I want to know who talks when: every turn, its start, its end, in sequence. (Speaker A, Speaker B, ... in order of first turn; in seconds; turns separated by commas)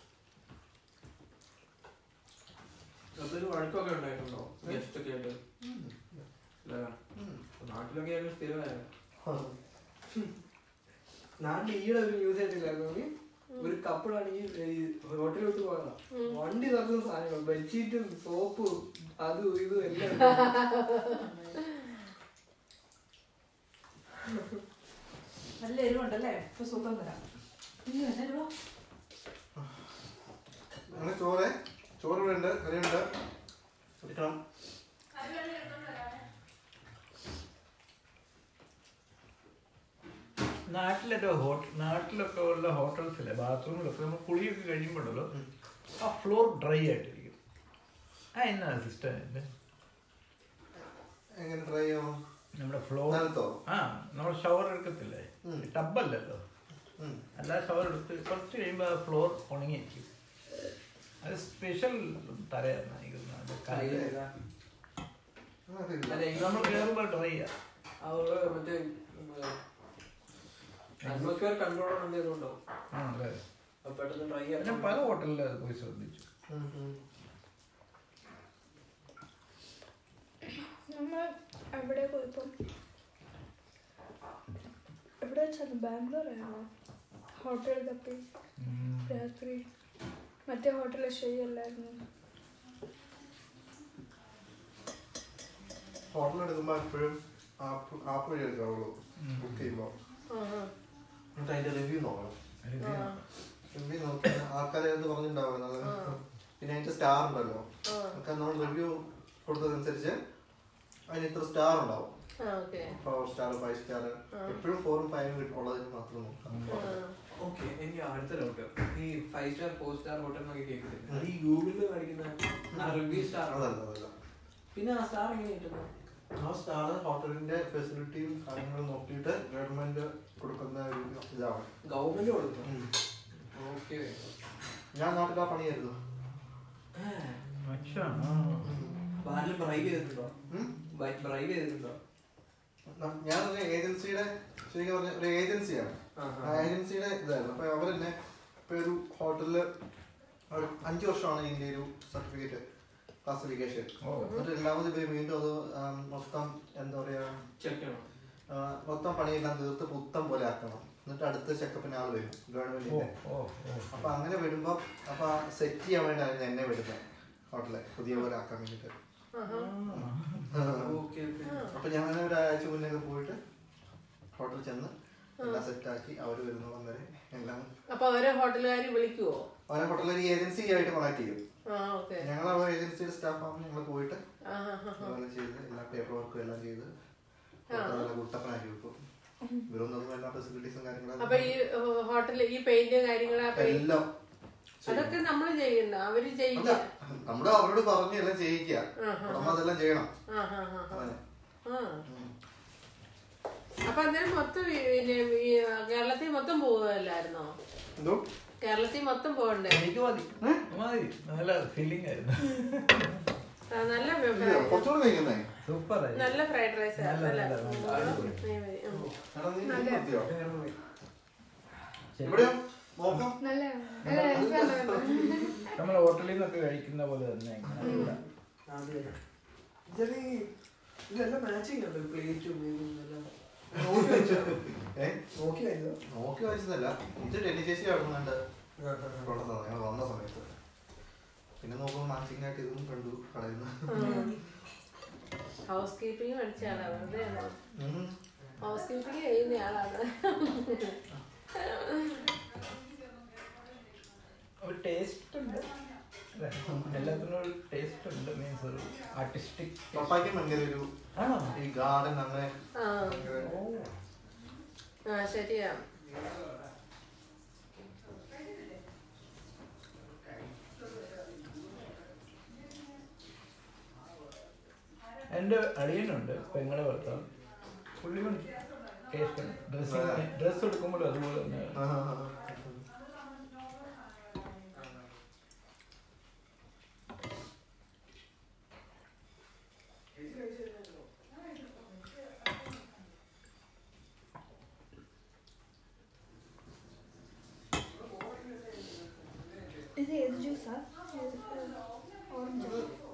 Speaker A: 3.2-5.4, Speaker B: 5.6-6.2, Speaker A: 6.6-7.0, Speaker B: 7.2-7.4, Speaker A: 7.6-8.9, Speaker B: 9.2-9.6, Speaker A: 11.4-20.6, Speaker C: 16.1-16.4, Speaker C: 20.3-21.2, Speaker D: 21.1-21.6, Speaker D: 25.6-27.2, Speaker D: 27.9-28.5, Speaker B: 30.9-33.1, Speaker B: 34.0-34.4, Speaker D: 35.1-36.2, Speaker E: 40.7-45.3, Speaker E: 46.0-47.4, Speaker E: 48.3-49.5, Speaker B: 51.4-52.2, Speaker E: 52.6-56.4, Speaker B: 53.1-53.6, Speaker B: 57.0-57.2, Speaker E: 57.4-60.1, Speaker E: 61.2-64.1, Speaker A: 63.7-64.3, Speaker B: 65.7-66.5, Speaker A: 66.1-66.8, Speaker E: 66.4-67.5, Speaker A: 68.0-69.5, Speaker E: 71.0-71.4, Speaker A: 71.0-72.6, Speaker E: 72.9-73.4, Speaker A: 73.8-75.1, Speaker E: 74.6-76.2, Speaker B: 76.5-77.0, Speaker F: 80.9-82.5, Speaker F: 85.2-86.7, Speaker F: 87.3-88.2, Speaker E: 88.6-89.2, Speaker F: 89.1-89.6, Speaker F: 90.5-92.0, Speaker B: 96.1-99.9, Speaker E: 99.2-99.7, Speaker C: 100.3-100.7, Speaker B: 101.4-102.4, Speaker E: 102.6-103.2, Speaker C: 102.8-103.2, Speaker B: 103.7-110.2, Speaker C: 105.8-106.2, Speaker C: 107.9-108.2, Speaker B: 111.1-112.1, Speaker C: 112.4-113.0, Speaker B: 112.8-117.0, Speaker C: 114.3-114.6, Speaker E: 116.5-116.8, Speaker C: 116.7-117.2, Speaker A: 117.4-123.7, Speaker B: 122.7-124.1, Speaker A: 124.7-125.9, Speaker B: 126.3-131.7, Speaker A: 131.8-132.7, Speaker B: 132.6-132.9, Speaker A: 133.5-134.2, Speaker B: 134.9-136.0, Speaker A: 136.9-137.4, Speaker E: 137.5-138.8, Speaker B: 138.6-139.0, Speaker A: 139.2-140.3, Speaker A: 140.9-142.0, Speaker B: 142.9-148.2, Speaker A: 146.2-146.7, Speaker B: 148.7-149.7, Speaker B: 150.5-152.6, Speaker B: 153.2-157.4, Speaker E: 154.0-154.4, Speaker C: 154.2-154.5, Speaker A: 157.6-158.1, Speaker B: 158.5-163.1, Speaker E: 162.9-164.1, Speaker B: 163.9-168.9, Speaker C: 169.3-169.7, Speaker E: 169.4-170.6, Speaker B: 169.9-171.0, Speaker A: 170.7-171.7, Speaker C: 171.4-171.8, Speaker B: 171.7-173.4, Speaker B: 174.4-177.7, Speaker C: 177.9-179.5, Speaker B: 179.7-181.4, Speaker C: 181.7-182.3, Speaker B: 182.2-184.2, Speaker C: 184.4-185.2, Speaker B: 185.0-186.9, Speaker B: 187.7-189.0, Speaker C: 187.7-188.1, Speaker B: 189.7-191.6, Speaker C: 191.2-193.8, Speaker B: 193.5-194.1, Speaker B: 194.8-195.2, Speaker C: 194.9-196.8, Speaker B: 196.5-200.1, Speaker C: 199.0-199.6, Speaker C: 200.3-201.1, Speaker B: 200.9-201.2, Speaker C: 201.7-202.0, Speaker B: 202.1-202.3, Speaker C: 203.9-207.6, Speaker B: 208.0-208.3, Speaker C: 208.6-209.9, Speaker E: 209.7-213.3, Speaker C: 213.7-214.9, Speaker B: 214.3-215.5, Speaker E: 215.6-216.4, Speaker C: 216.2-219.1, Speaker E: 216.9-218.4, Speaker A: 217.8-218.3, Speaker A: 218.9-219.2, Speaker B: 219.3-220.3, Speaker F: 219.7-220.0, Speaker A: 220.2-220.8, Speaker E: 222.2-222.5, Speaker B: 222.2-223.4, Speaker F: 223.4-225.6, Speaker E: 224.0-224.5, Speaker B: 224.1-225.5, Speaker E: 225.7-228.2, Speaker F: 227.8-228.2, Speaker C: 227.9-228.1, Speaker A: 228.7-229.2, Speaker A: 229.9-230.5, Speaker A: 231.1-234.7, Speaker B: 233.7-235.2, Speaker A: 235.3-236.0, Speaker B: 236.1-238.4, Speaker A: 238.8-239.3, Speaker B: 239.2-240.5, Speaker B: 241.6-244.2, Speaker C: 243.9-244.3, Speaker D: 244.0-244.4, Speaker C: 245.7-247.5, Speaker E: 246.7-247.0, Speaker B: 247.8-248.2, Speaker C: 248.6-251.0, Speaker C: 251.6-252.3, Speaker E: 254.6-255.7, Speaker E: 256.4-260.4, Speaker B: 256.6-257.1, Speaker B: 259.9-260.9, Speaker E: 261.2-261.6, Speaker B: 261.5-263.6, Speaker C: 262.8-263.3, Speaker E: 263.3-263.9, Speaker C: 265.1-265.8, Speaker E: 275.3-277.3, Speaker E: 278.0-278.5, Speaker E: 279.1-281.9, Speaker B: 279.8-280.3, Speaker B: 281.7-282.8, Speaker A: 284.7-285.1, Speaker A: 290.2-290.9, Speaker A: 298.0-299.9, Speaker F: 300.0-302.9